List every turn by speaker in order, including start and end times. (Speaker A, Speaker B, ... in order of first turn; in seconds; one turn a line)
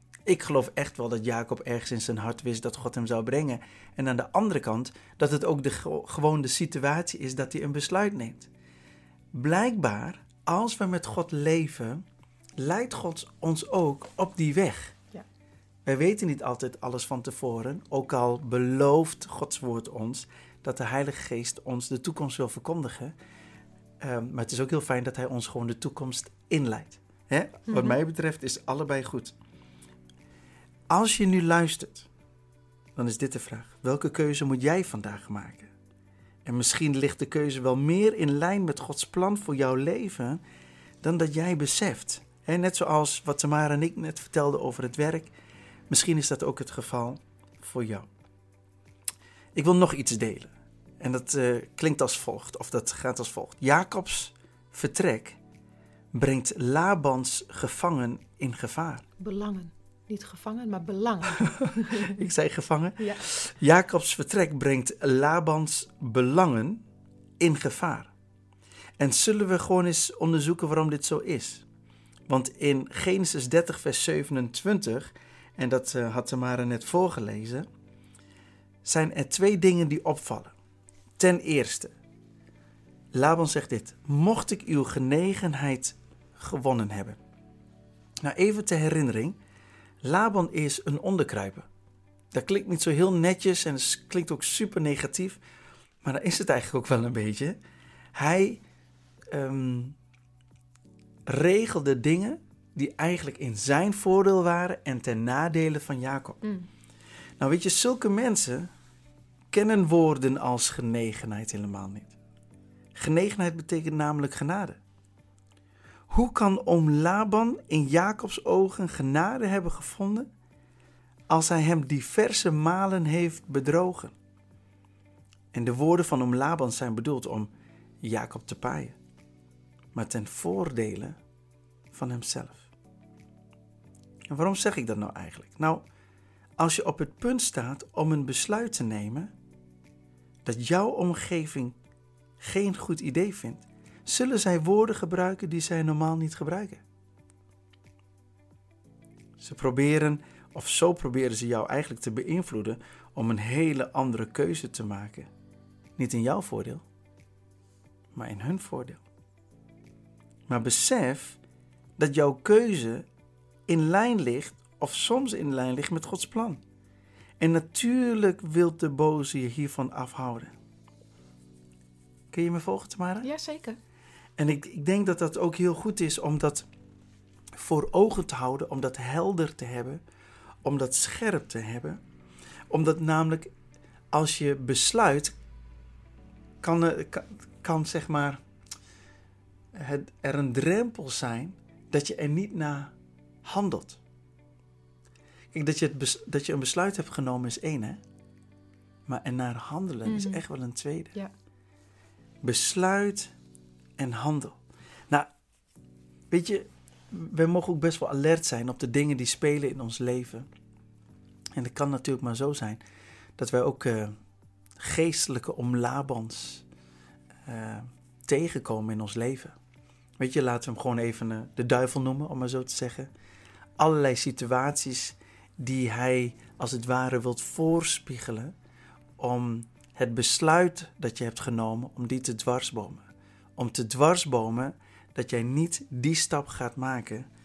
Speaker A: 0.2-8.5
Speaker A: 9.3-12.0
Speaker A: 12.6-14.9
Speaker A: 15.8-23.1
Speaker A: 24.0-29.3
Speaker B: 27.7-28.0
Speaker A: 30.9-32.1
Speaker A: 33.0-35.7
Speaker A: 36.4-40.4
Speaker A: 41.0-45.3
Speaker A: 45.9-48.1
Speaker A: 49.5-55.4
Speaker A: 56.1-59.0
Speaker B: 59.2-62.2
Speaker A: 61.6-66.8
Speaker B: 63.0-63.2
Speaker A: 67.4-68.1
Speaker A: 69.0-71.6
Speaker A: 72.3-77.7
Speaker A: 78.8-80.5
Speaker A: 81.2-81.9
Speaker A: 83.1-87.2
Speaker A: 88.2-89.4
Speaker A: 90.0-91.7
Speaker A: 92.3-95.4
Speaker A: 96.0-97.6
Speaker A: 98.1-98.6
Speaker A: 99.3-100.0
Speaker A: 101.3-106.4
Speaker B: 106.4-106.7
Speaker A: 107.4-108.7
Speaker A: 109.5-112.1
Speaker A: 112.9-114.8
Speaker A: 116.1-120.3
Speaker A: 121.3-124.1
Speaker A: 125.5-127.5
Speaker A: 128.0-129.0
Speaker A: 129.9-131.2
Speaker A: 131.9-132.7
Speaker A: 134.3-135.8
Speaker A: 136.6-139.3
Speaker A: 140.4-141.8
Speaker A: 142.4-146.8
Speaker A: 149.4-155.3
Speaker A: 156.0-156.8
Speaker A: 158.1-159.0
Speaker A: 160.5-161.4
Speaker A: 162.0-163.1
Speaker A: 163.7-166.6
Speaker A: 167.4-170.5
Speaker A: 172.3-173.3
Speaker B: 173.2-173.8
Speaker A: 174.4-176.7
Speaker A: 177.6-180.0
Speaker A: 180.6-182.0
Speaker A: 182.7-183.5
Speaker A: 184.1-185.3
Speaker A: 186.6-188.4
Speaker A: 189.7-194.0
Speaker A: 195.5-198.0
Speaker A: 199.1-201.1
Speaker B: 200.1-200.4
Speaker A: 202.4-203.3
Speaker A: 204.0-205.3
Speaker A: 206.3-210.5
Speaker A: 211.5-212.8
Speaker A: 213.4-214.1
Speaker A: 214.8-216.6
Speaker A: 217.4-219.6
Speaker A: 220.2-223.1
Speaker A: 223.8-228.5
Speaker A: 229.2-237.3